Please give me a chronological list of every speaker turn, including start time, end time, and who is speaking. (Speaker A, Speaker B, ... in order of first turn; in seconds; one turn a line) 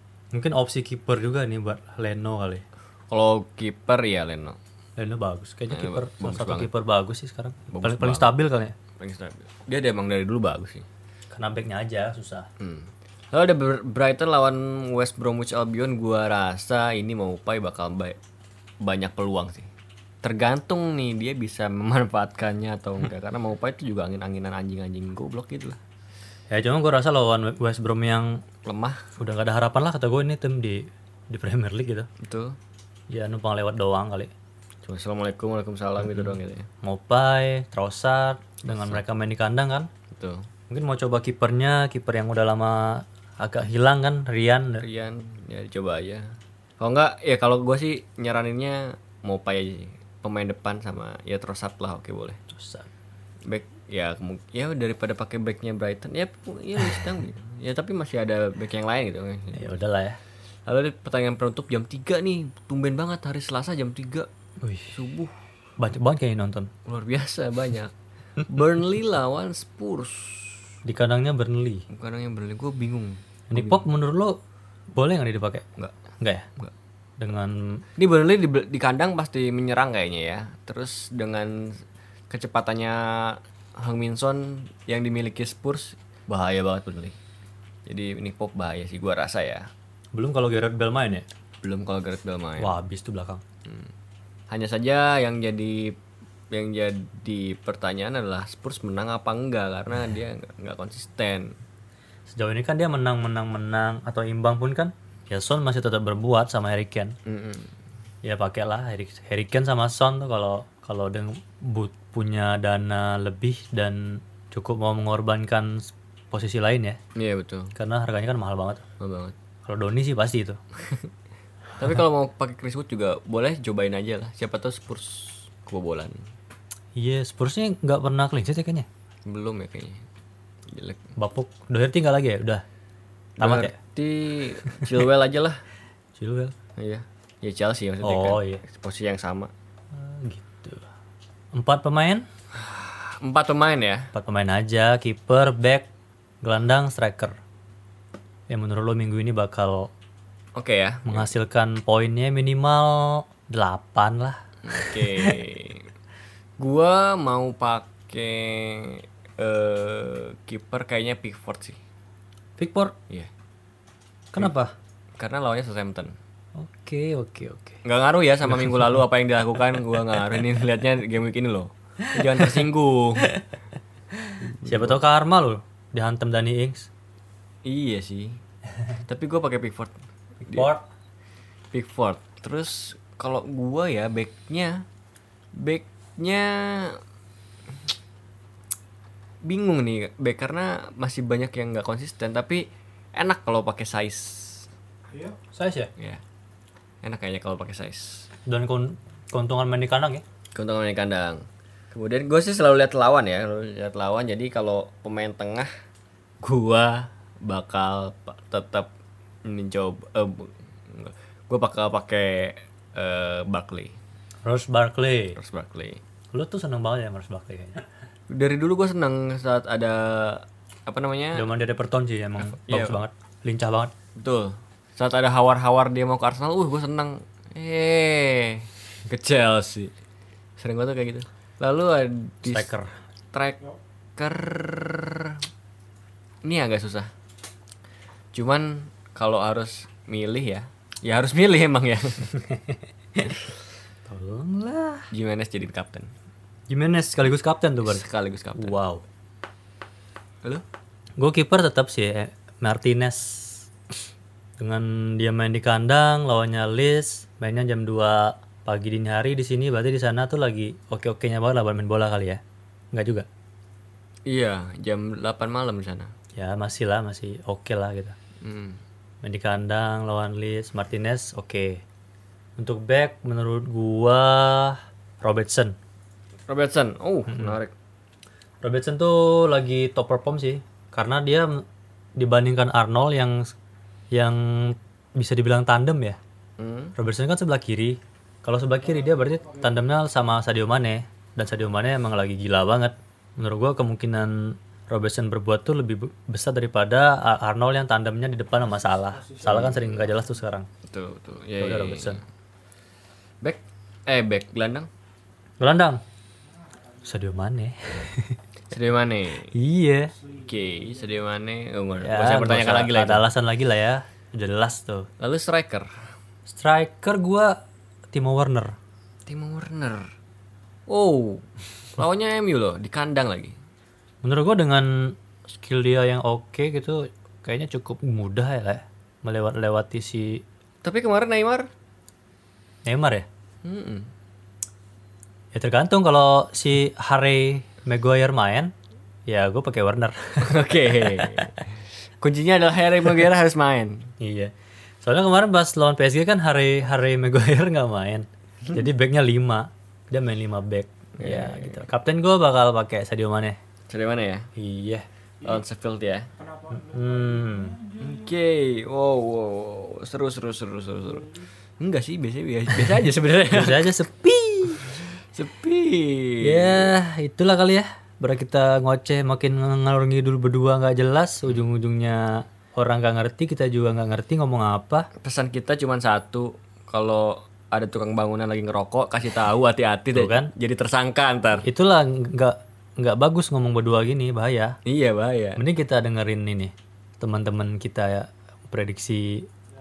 Speaker A: 0.3-2.6
Speaker B: 3.1-4.6
Speaker A: 5.0-8.7
Speaker B: 5.7-6.7
Speaker B: 7.7-8.3
Speaker B: 9.0-10.8
Speaker A: 11.3-12.5
Speaker B: 12.6-18.2
Speaker B: 18.8-19.7
Speaker B: 20.2-25.8
Speaker A: 26.5-28.4
Speaker B: 28.6-29.1
Speaker A: 29.2-32.1
Speaker B: 32.2-32.6
Speaker A: 33.1-34.3
Speaker B: 34.8-36.7
Speaker A: 36.1-39.9
Speaker B: 38.6-39.0
Speaker B: 40.1-40.5
Speaker A: 40.7-44.8
Speaker B: 44.8-52.4
Speaker A: 52.5-52.9
Speaker B: 53.5-59.8
Speaker A: 59.5-60.2
Speaker B: 60.6-64.3
Speaker A: 64.6-65.0
Speaker B: 64.9-65.3
Speaker A: 65.8-66.7
Speaker B: 66.8-70.6
Speaker A: 70.8-71.8
Speaker B: 71.9-73.8
Speaker A: 73.5-74.4
Speaker A: 74.9-75.6
Speaker A: 76.2-76.5
Speaker A: 77.2-77.8
Speaker B: 78.0-87.2
Speaker B: 87.8-89.7
Speaker A: 90.1-91.2
Speaker B: 91.6-92.7
Speaker A: 92.6-93.4
Speaker B: 93.6-93.9
Speaker B: 94.5-96.0
Speaker B: 96.5-101.5
Speaker A: 102.3-107.2
Speaker B: 107.2-107.7
Speaker A: 108.2-117.0
Speaker B: 117.2-117.7
Speaker A: 117.8-118.8
Speaker B: 119.0-119.3
Speaker A: 119.6-120.6
Speaker B: 120.8-121.1
Speaker B: 121.8-126.2
Speaker A: 127.0-128.9
Speaker B: 129.2-130.1
Speaker B: 130.7-131.1
Speaker A: 131.2-132.6
Speaker B: 133.4-135.6
Speaker A: 133.4-133.7
Speaker A: 136.2-136.5
Speaker B: 136.8-139.5
Speaker A: 138.0-138.6
Speaker A: 139.9-140.8
Speaker A: 141.5-142.2
Speaker B: 142.5-144.1
Speaker A: 144.1-145.9
Speaker A: 146.4-147.3
Speaker A: 148.5-149.9
Speaker B: 150.6-151.3
Speaker A: 151.1-155.4
Speaker B: 154.6-155.9
Speaker B: 156.6-161.8
Speaker A: 162.6-162.9
Speaker A: 164.3-164.7
Speaker B: 165.2-166.1
Speaker A: 166.6-167.8
Speaker B: 167.8-173.3
Speaker A: 168.6-168.9
Speaker A: 172.2-172.6
Speaker A: 174.2-176.9
Speaker B: 174.6-175.0
Speaker B: 177.6-178.4
Speaker B: 179.0-180.7
Speaker A: 180.5-180.8
Speaker B: 181.7-184.8
Speaker B: 185.6-187.0
Speaker B: 189.4-194.7
Speaker A: 195.5-195.9
Speaker B: 196.0-196.2
Speaker B: 197.0-198.3
Speaker A: 198.4-200.2
Speaker B: 200.5-205.7
Speaker B: 206.4-208.9
Speaker B: 209.4-213.9
Speaker A: 214.4-215.4
Speaker B: 215.3-216.0
Speaker A: 216.3-217.9
Speaker B: 218.3-221.4
Speaker A: 221.3-223.9
Speaker B: 222.5-223.0
Speaker B: 224.2-229.9
Speaker B: 230.6-232.7
Speaker A: 232.4-233.0
Speaker B: 233.3-235.4
Speaker B: 236.4-237.1
Speaker B: 238.3-242.3
Speaker A: 242.4-243.3
Speaker A: 244.1-245.1
Speaker B: 245.1-246.1
Speaker A: 246.7-248.0
Speaker B: 247.8-248.8
Speaker A: 248.6-249.0
Speaker A: 251.2-253.7
Speaker A: 254.6-262.4
Speaker A: 262.9-263.3
Speaker B: 264.3-266.1
Speaker A: 266.4-268.1
Speaker B: 268.4-268.8
Speaker A: 269.2-271.8
Speaker A: 272.6-275.8
Speaker B: 276.5-277.7
Speaker A: 277.3-277.6
Speaker A: 278.6-281.6
Speaker A: 282.1-283.5
Speaker A: 284.1-286.2
Speaker B: 286.6-286.9
Speaker A: 286.9-300.7
Speaker B: 299.4-299.9
Speaker B: 300.8-302.2
Speaker A: 301.6-302.2
Speaker B: 303.4-304.9
Speaker A: 305.6-306.0
Speaker A: 307.0-308.4
Speaker B: 308.7-309.5
Speaker A: 309.5-310.1
Speaker B: 310.3-313.2
Speaker A: 312.0-315.1
Speaker B: 315.2-315.9
Speaker A: 316.5-317.6
Speaker A: 318.1-318.8
Speaker B: 319.2-320.1
Speaker B: 320.9-323.5
Speaker A: 324.2-330.4
Speaker B: 330.8-331.7
Speaker A: 332.8-333.3
Speaker B: 333.6-334.1
Speaker A: 335.5-338.7
Speaker A: 339.3-341.5
Speaker B: 340.4-344.1
Speaker A: 344.2-353.6
Speaker B: 351.2-351.8
Speaker B: 353.9-354.5
Speaker A: 354.6-355.0
Speaker B: 355.4-356.3
Speaker A: 356.7-357.8
Speaker B: 358.0-363.9
Speaker A: 363.5-364.9
Speaker B: 364.9-366.9
Speaker A: 366.4-375.1
Speaker B: 375.2-381.6
Speaker A: 380.1-380.5
Speaker A: 381.6-384.8
Speaker B: 384.9-385.6
Speaker A: 385.6-389.5